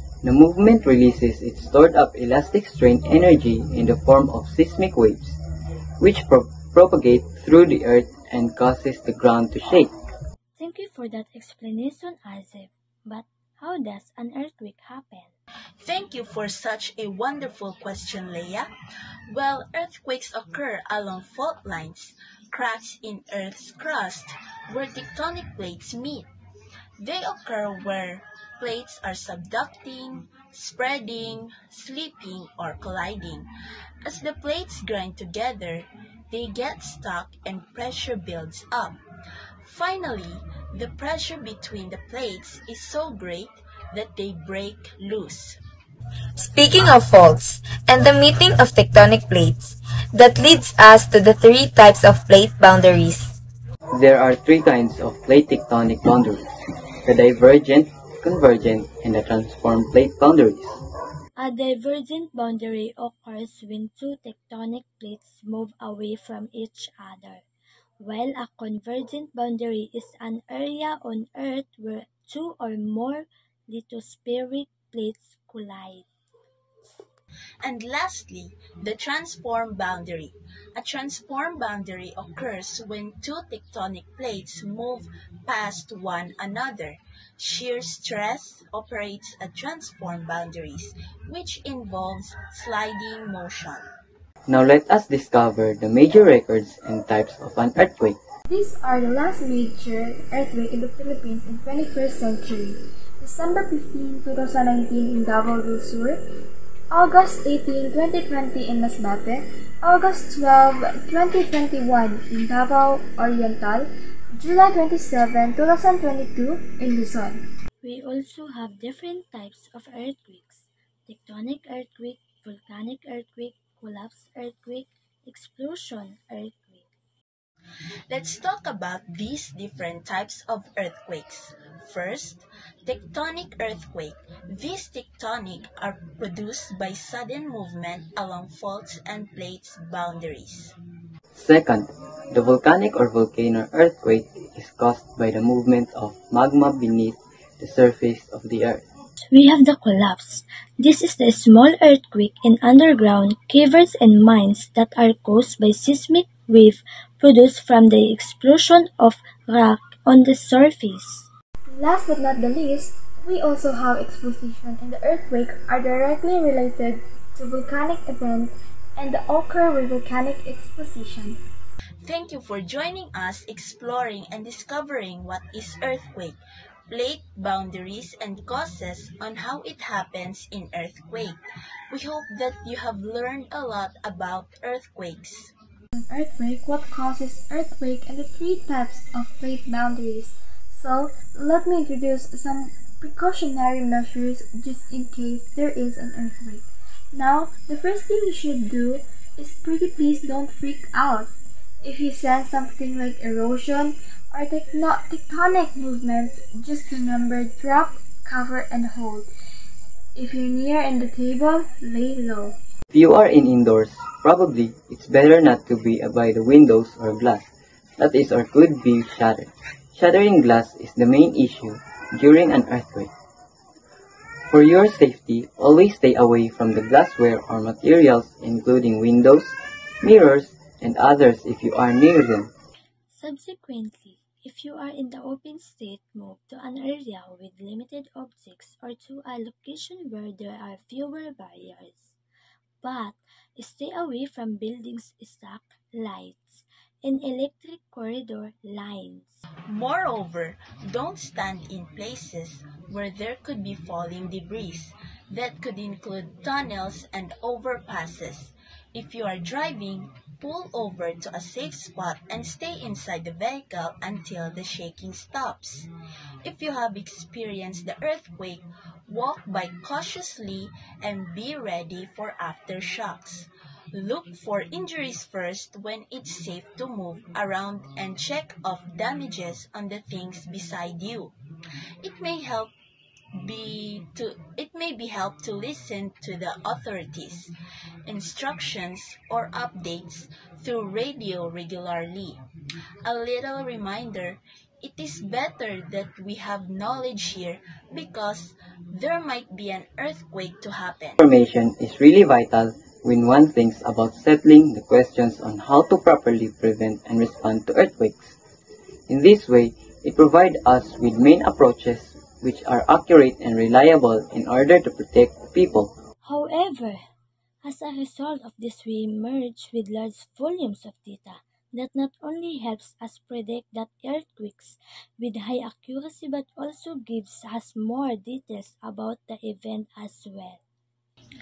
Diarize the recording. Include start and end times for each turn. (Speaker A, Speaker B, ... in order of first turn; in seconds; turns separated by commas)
Speaker A: 0.2-5.4, Speaker A: 6.0-9.9, Speaker B: 10.6-15.3, Speaker C: 15.8-18.7, Speaker C: 19.3-26.3, Speaker C: 27.0-33.5, Speaker C: 34.0-39.0, Speaker C: 39.6-45.6, Speaker D: 46.4-53.4, Speaker A: 53.9-60.8, Speaker B: 61.4-67.4, Speaker B: 68.0-76.1, Speaker C: 77.6-93.8, Speaker A: 94.5-98.2, Speaker E: 98.5-106.2, Speaker E: 106.9-117.4, Speaker B: 117.8-126.9, Speaker C: 128.1-140.7, Speaker A: 141.3-148.9, Speaker B: 149.2-161.3, Speaker E: 161.7-171.4, Speaker C: 172.0-176.4, Speaker C: 176.9-181.4, Speaker C: 181.9-185.5, Speaker E: 185.9-201.3, Speaker E: 201.8-209.3, Speaker E: 210.2-212.5, Speaker A: 212.9-223.1, Speaker A: 224.5-232.5, Speaker B: 233.1-242.2, Speaker B: 242.8-249.4, Speaker C: 249.7-265.9, Speaker C: 266.4-281.3, Speaker C: 282.0-282.7, Speaker C: 283.4-287.5, Speaker C: 288.1-292.4, Speaker C: 293.0-301.2, Speaker A: 301.2-308.4, Speaker A: 309.1-315.9, Speaker B: 316.2-317.0, Speaker B: 317.6-330.6